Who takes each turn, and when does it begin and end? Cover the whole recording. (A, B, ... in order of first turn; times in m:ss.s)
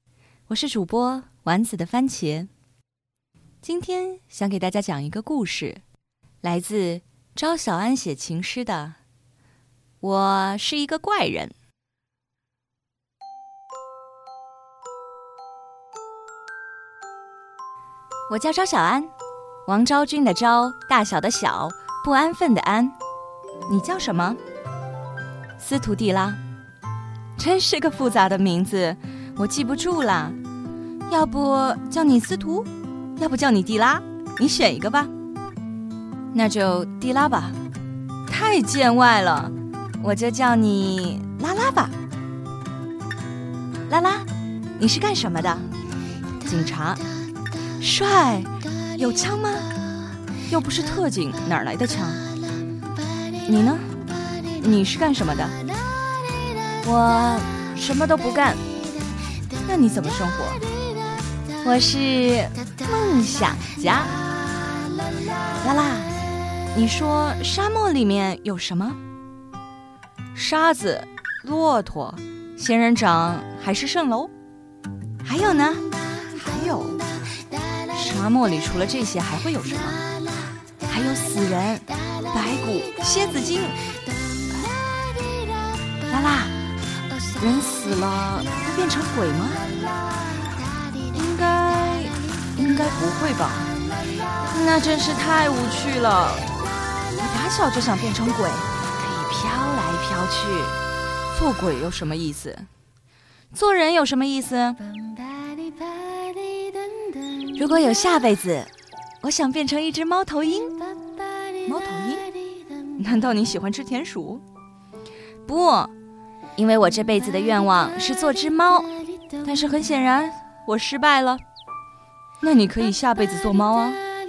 0:00.5-0:02.5 A
0:03.6-0:05.8 A
0:06.4-0:09.0 A
0:10.0-0:11.5 A
0:18.3-0:19.1 A
0:19.6-0:22.9 A
0:23.7-0:24.4 A
0:25.6-0:26.4 A
0:27.4-0:30.4 A
0:31.1-0:35.1 A
0:36.3-0:37.6 A
0:38.3-0:41.9 A
0:43.9-0:44.3 A
0:44.8-0:45.7 A
0:46.4-0:47.0 A
0:47.8-0:49.7 A
0:50.5-0:52.2 A
0:53.4-0:54.0 A
0:54.5-0:55.6 A
0:56.8-0:58.6 A
0:59.6-1:00.6 A
1:01.6-1:04.2 A
1:05.5-1:09.0 A
1:10.3-1:14.3 A
1:15.2-1:17.1 A
1:17.9-1:20.0 A
1:20.9-1:23.9 A
1:26.1-1:26.6 A
1:27.4-1:29.6 A
1:31.1-1:33.7 A
1:34.4-1:36.5 A
1:37.1-1:40.8 A
1:41.3-1:42.7 A
1:43.5-1:44.8 A
1:47.4-1:48.7 A
1:49.2-1:50.8 A
1:51.6-1:52.3 A
1:52.8-1:54.4 A
1:55.4-1:55.9 A
1:56.6-2:01.4 A
2:02.4-2:04.0 A